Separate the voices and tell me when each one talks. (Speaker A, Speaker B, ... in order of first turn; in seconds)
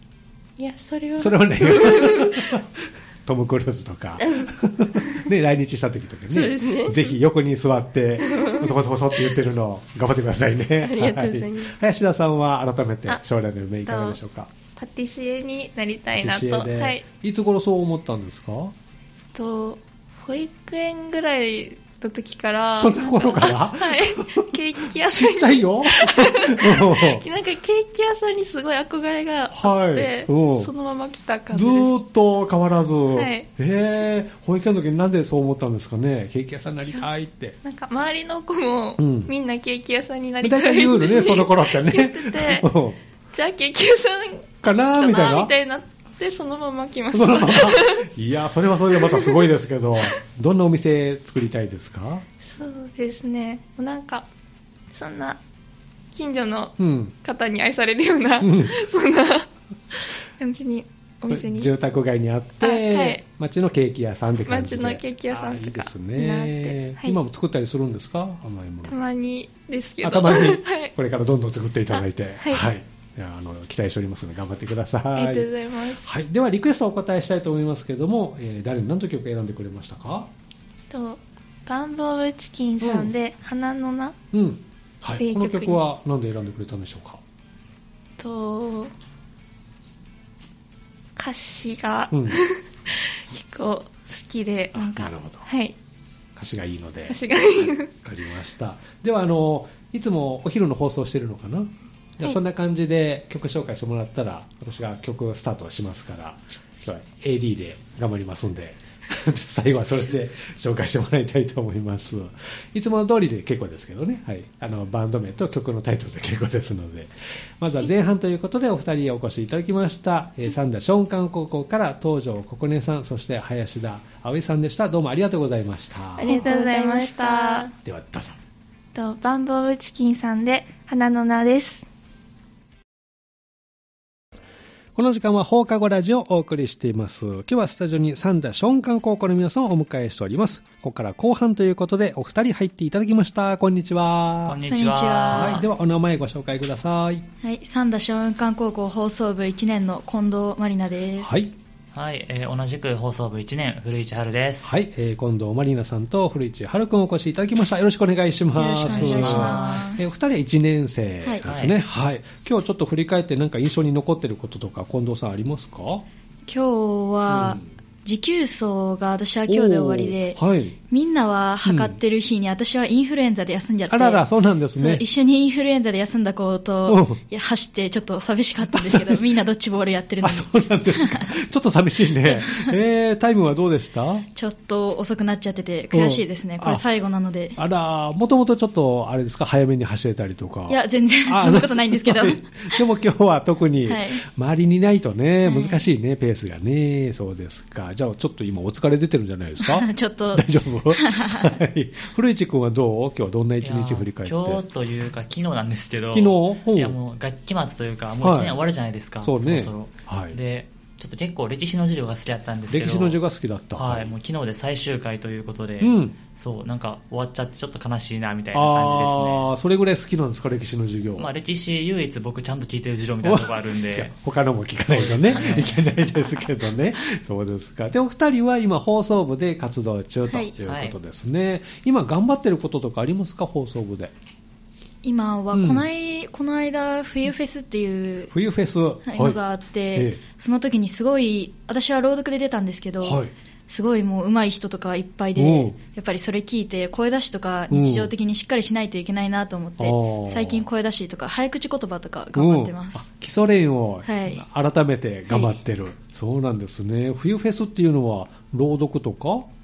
Speaker A: 0.6-2.5, 4.2-4.5, 6.3-7.1, 8.2-8.7, 10.8-11.7, 126.2-127.7
Speaker B: 1.2-14.5, 16.2-18.7, 22.8-24.5, 25.1-27.2, 29.5-30.7, 31.5-37.5, 39.0-39.3, 40.4-43.0, 44.6-45.5, 47.1-52.2, 56.8-57.1, 58.4-58.8, 61.3-69.0, 70.0-80.3, 82.8-83.1, 84.3-87.2, 92.1-92.4, 94.7-95.5, 96.3-126.4, 127.8-128.4, 134.9-144.6, 145.3-147.2, 151.2-151.5, 154.6-166.1, 167.3-167.6, 169.5-170.8, 171.6-172.0, 173.9-175.0, 176.9-177.2, 178.7-179.3, 180.2-184.2, 185.9-186.8, 187.6-204.6, 206.1-207.0, 208.2-208.6, 209.2-210.4, 212.7-214.1, 215.8-216.2, 218.5-221.3, 223.2-234.1, 235.5-235.9, 238.3-239.4, 239.9-240.2, 243.0-243.3, 245.3-245.8, 247.7-248.1, 249.8-250.7, 252.3-259.5
Speaker C: 13.9-14.2, 14.8-17.0, 19.3-31.9, 33.1-33.5, 37.6-42.7, 43.3-48.0, 48.9-49.5, 52.4-54.3, 54.9-55.4, 56.1-61.7, 62.6-63.2, 64.5-67.2, 68.9-70.9, 71.9-72.6, 75.2-76.0, 80.9-84.2, 85.2-85.8, 88.2-88.9, 91.2-95.7, 97.1-97.9, 126.2-127.7, 128.9-131.8
Speaker D: 144.4-145.6, 151.9-154.8, 158.8-160.0, 161.4-161.8, 203.6-213.2, 213.7-219.5, 221.2-224.1, 224.8-225.9, 230.6-230.9
Speaker E: 144.7-145.6, 147.4-151.4, 158.5-160.1, 166.5-174.2, 174.8-181.3, 182.2-182.8, 184.3-187.6, 190.7-192.8, 193.8-194.2, 195.4-195.8, 199.6-201.6, 235.0-238.3, 239.1-253.1, 254.0-254.4, 255.3-255.6